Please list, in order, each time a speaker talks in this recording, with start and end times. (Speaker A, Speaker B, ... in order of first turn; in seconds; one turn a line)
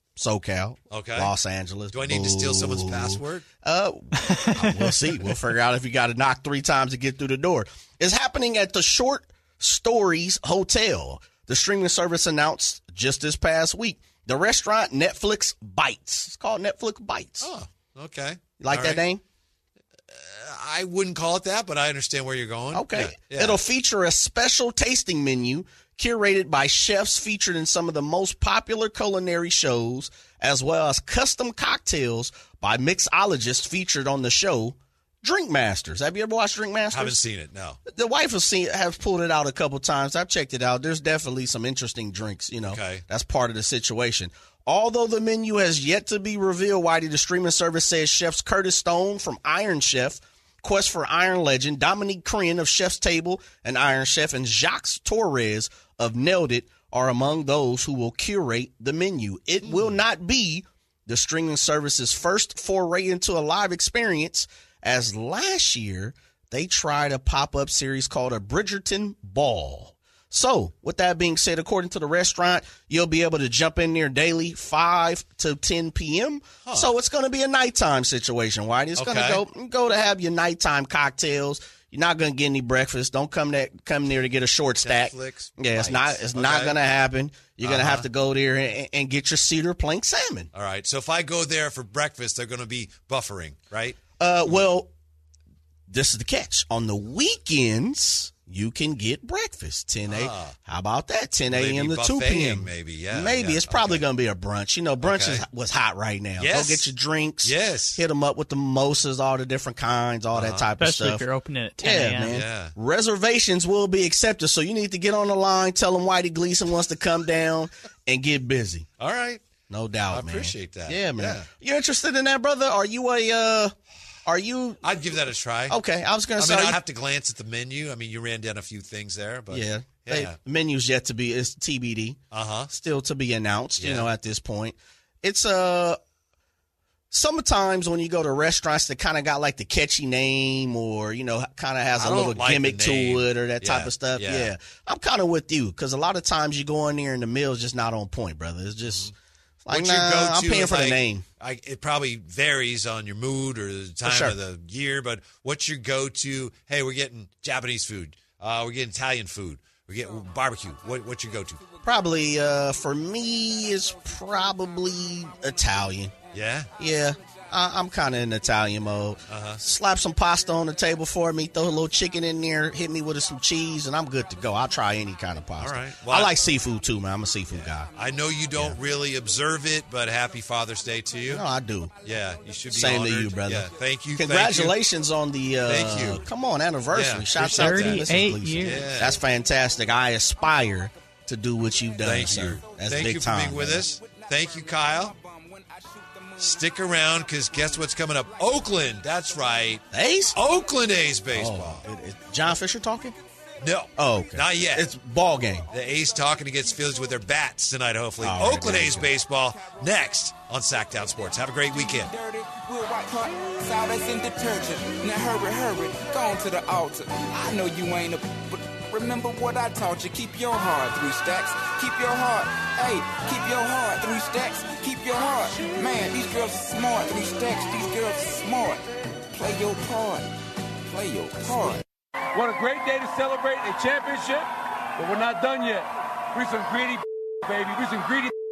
Speaker A: 0.2-17.5
Speaker B: 0.9-1.3
Speaker B: 1.9-3.5
Speaker C: 4.3-4.5
Speaker B: 17.4-19.0
Speaker A: 18.6-19.2
Speaker B: 20.1-23.6
Speaker A: 22.7-37.2
Speaker B: 36.9-37.8
Speaker A: 37.9-90.5
Speaker B: 42.7-43.0
Speaker B: 59.6-60.0
Speaker B: 76.7-76.9
Speaker B: 79.0-79.4
Speaker B: 84.8-86.8
Speaker B: 87.6-88.1
Speaker B: 90.5-94.0
Speaker A: 94.2-94.9
Speaker A: 95.9-111.2
Speaker B: 100.1-100.5
Speaker B: 101.5-104.1
Speaker B: 105.0-105.4
Speaker B: 106.4-106.9
Speaker B: 107.4-108.0
Speaker B: 110.3-110.7
Speaker C: 110.8-112.4
Speaker A: 111.8-118.9
Speaker B: 112.2-112.7
Speaker B: 119.0-119.5
Speaker A: 119.7-123.7
Speaker B: 120.1-121.5
Speaker A: 124.2-124.8
Speaker B: 124.8-125.8
Speaker A: 125.7-126.8
Speaker B: 126.4-130.4
Speaker A: 129.5-132.2
Speaker B: 132.3-132.7
Speaker A: 132.7-136.0
Speaker B: 133.8-134.1
Speaker A: 137.1-149.1
Speaker B: 141.9-144.5
Speaker A: 149.6-151.2
Speaker B: 149.7-161.6
Speaker A: 154.0-154.4
Speaker A: 161.8-166.2
Speaker B: 166.3-166.7
Speaker A: 166.8-177.9
Speaker B: 169.3-169.6
Speaker B: 175.6-176.4
Speaker B: 177.5-181.4
Speaker A: 181.3-181.9
Speaker B: 182.0-184.8
Speaker A: 182.7-193.9
Speaker B: 185.6-186.2
Speaker B: 186.9-188.1
Speaker C: 187.4-188.9
Speaker B: 188.6-189.2
Speaker B: 192.0-195.2
Speaker D: 193.8-199.4
Speaker B: 196.4-199.8
Speaker A: 199.9-200.4
Speaker B: 200.3-201.8
Speaker A: 201.3-203.2
Speaker B: 203.6-204.9
Speaker A: 204.0-205.7
Speaker B: 205.7-212.1
Speaker D: 206.0-207.2
Speaker A: 208.2-209.1
Speaker D: 209.3-210.1
Speaker D: 210.9-230.3
Speaker D: 230.9-231.8
Speaker E: 232.3-238.3